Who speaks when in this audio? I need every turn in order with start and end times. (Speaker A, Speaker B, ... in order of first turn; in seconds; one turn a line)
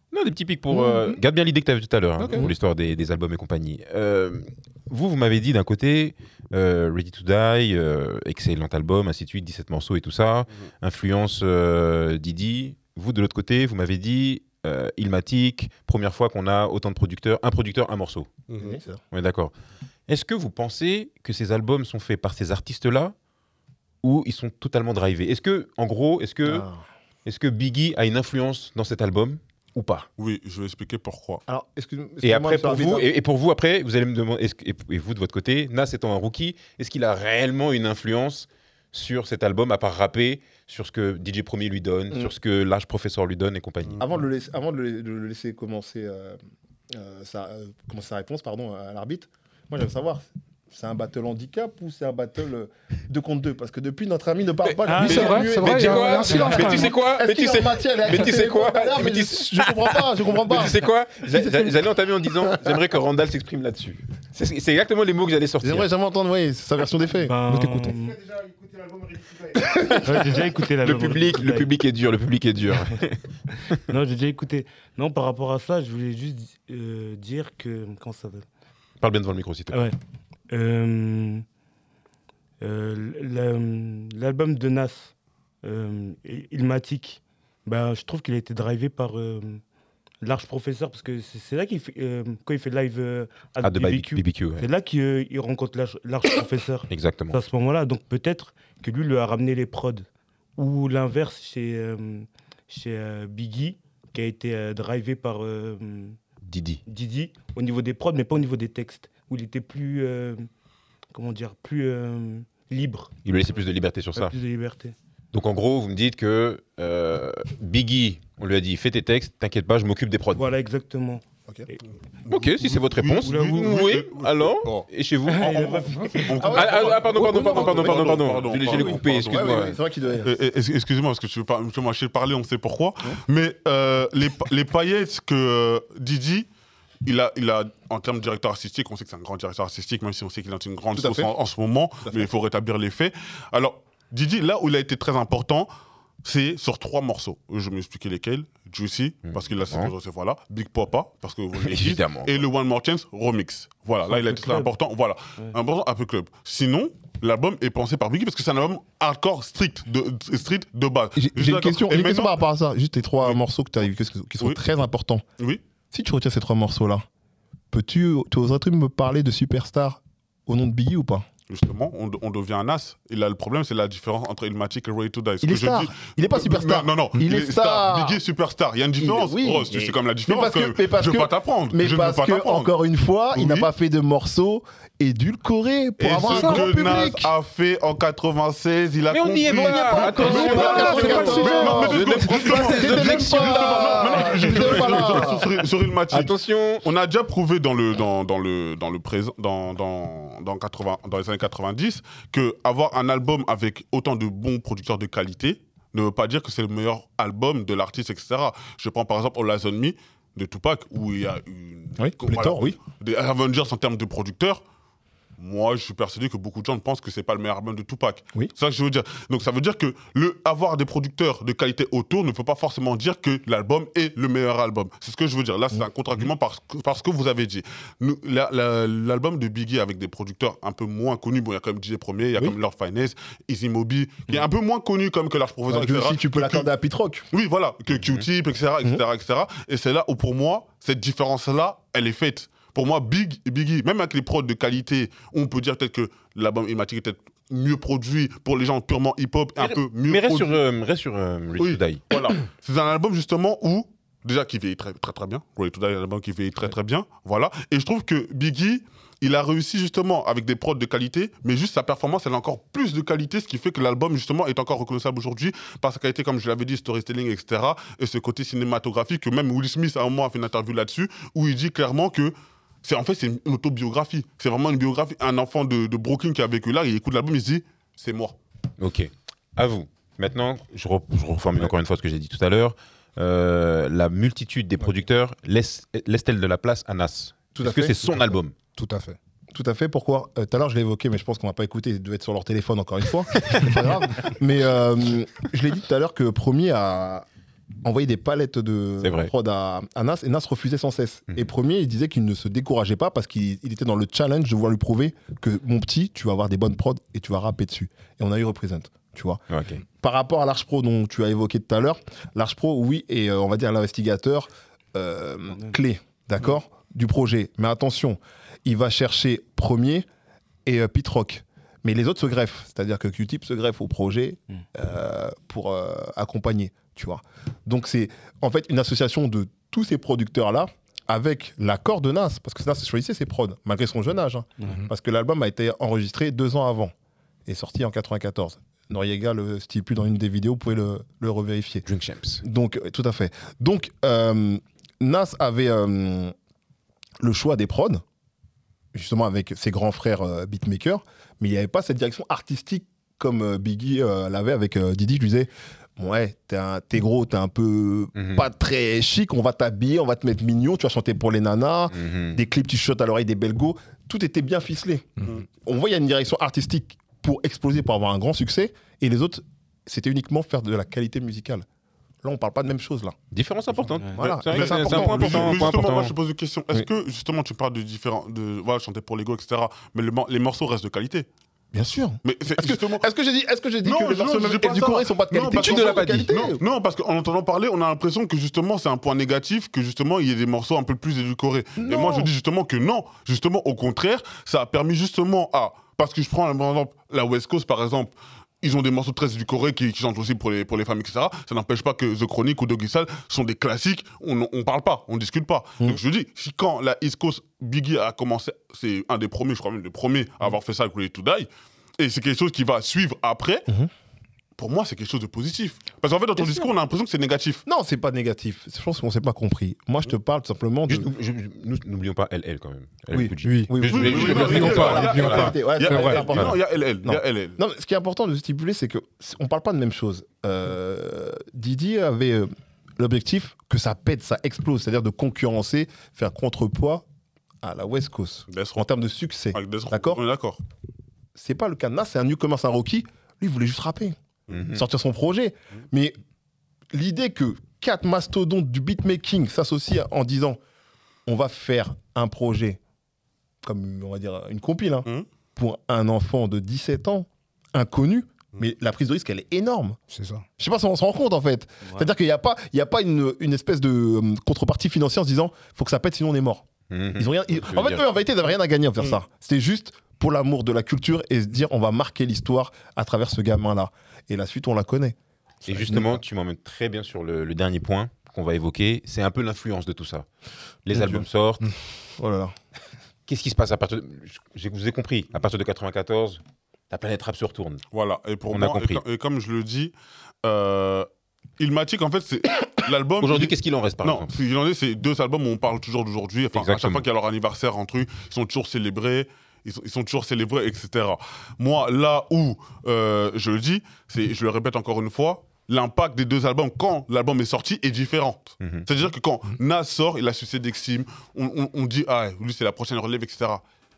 Speaker A: 0.1-18.4
Speaker B: 0.7-1.1
Speaker B: 2.2-2.5
Speaker C: 2.2-2.5
Speaker D: 18.5-18.8
Speaker C: 18.6-19.0
Speaker A: 19.1-19.5
Speaker A: 20.1-23.1
Speaker A: 24.0-26.6
Speaker C: 26.4-26.8
Speaker A: 27.2-30.1
Speaker D: 30.2-31.4
Speaker C: 31.5-33.1
Speaker A: 32.2-44.1
Speaker C: 44.0-46.4
Speaker C: 46.9-62.8
Speaker A: 54.6-65.9
Speaker E: 54.8-55.6
Speaker B: 55.0-56.9
Speaker C: 65.6-67.3
Speaker E: 67.2-68.2
Speaker B: 67.5-67.8
Speaker C: 68.2-70.2
Speaker E: 70.0-71.7
Speaker A: 70.8-73.2
Speaker E: 73.9-78.5
Speaker A: 79.0-79.9
Speaker E: 79.7-80.0
Speaker E: 80.5-81.4
Speaker E: 82.6-89.6
Speaker E: 90.2-106.2
Speaker A: 93.6-94.7
Speaker A: 96.9-97.4
Speaker A: 106.4-106.8
Speaker E: 106.8-110.5
Speaker E: 111.1-113.1
Speaker A: 113.2-114.3
Speaker E: 114.1-114.9
Speaker A: 115.3-120.5
Speaker E: 120.3-121.8
Speaker D: 122.2-129.7
Speaker A: 122.3-125.7
Speaker E: 123.2-123.7
Speaker E: 125.3-126.5
Speaker C: 126.4-130.3
Speaker A: 126.5-129.7
Speaker D: 130.2-136.5
Speaker D: 137.0-145.7
Speaker C: 140.9-141.3
Speaker D: 146.2-162.3
Speaker A: 149.3-149.9
Speaker A: 151.6-152.4
Speaker E: 154.1-154.7
Speaker C: 161.2-165.2
Speaker C: 165.9-167.0
Speaker C: 167.7-171.2
Speaker D: 171.5-182.7
Speaker C: 175.4-178.2
Speaker C: 179.0-187.3
Speaker D: 183.3-183.7
Speaker D: 186.0-214.6
Speaker B: 186.3-186.6
Speaker A: 189.1-195.3
Speaker C: 189.5-195.4
Speaker B: 190.2-192.0
Speaker A: 196.1-196.8
Speaker C: 212.0-212.8
Speaker D: 215.4-236.7
Speaker C: 235.7-237.3
Speaker D: 237.3-250.6
Speaker A: 237.9-238.2
Speaker A: 249.6-252.1
Speaker D: 251.6-278.4
Speaker A: 278.8-288.5
Speaker C: 287.6-288.4
Speaker B: 288.7-289.2
Speaker C: 289.5-297.2
Speaker C: 297.8-320.0
Speaker A: 299.0-299.3
Speaker A: 309.5-309.8
Speaker C: 320.6-336.9
Speaker C: 337.4-341.9
Speaker A: 341.9-342.4
Speaker C: 342.4-346.3
Speaker C: 347.2-348.0
Speaker C: 348.9-371.6
Speaker A: 358.1-358.4
Speaker A: 361.9-362.4
Speaker C: 372.2-373.2
Speaker A: 373.3-376.1
Speaker C: 374.1-375.8
Speaker D: 374.2-381.3
Speaker C: 381.7-386.6
Speaker D: 382.2-383.0
Speaker D: 383.8-411.5
Speaker A: 385.5-386.3
Speaker C: 391.8-392.3
Speaker D: 412.0-413.6
Speaker D: 414.6-417.6
Speaker C: 416.4-416.7
Speaker C: 417.6-421.1
Speaker A: 420.9-425.6
Speaker C: 423.1-437.0
Speaker B: 423.4-426.3
Speaker D: 423.8-427.6
Speaker A: 426.3-426.6
Speaker C: 437.6-440.2
Speaker D: 438.5-438.9
Speaker D: 439.5-440.6
Speaker C: 441.3-444.1
Speaker A: 444.5-444.8
Speaker C: 444.7-446.2
Speaker C: 446.9-450.6
Speaker C: 451.2-452.8
Speaker C: 453.6-460.0
Speaker B: 460.1-460.4
Speaker C: 460.6-475.1
Speaker A: 466.9-468.0
Speaker A: 475.6-480.2
Speaker C: 475.7-476.2
Speaker A: 480.8-481.6
Speaker C: 480.9-481.2
Speaker C: 482.2-482.5
Speaker A: 483.3-487.8
Speaker D: 487.9-489.9
Speaker A: 488.5-489.0
Speaker D: 490.4-491.1
Speaker D: 491.6-513.6
Speaker A: 493.2-494.3
Speaker A: 496.5-497.1
Speaker A: 508.6-508.9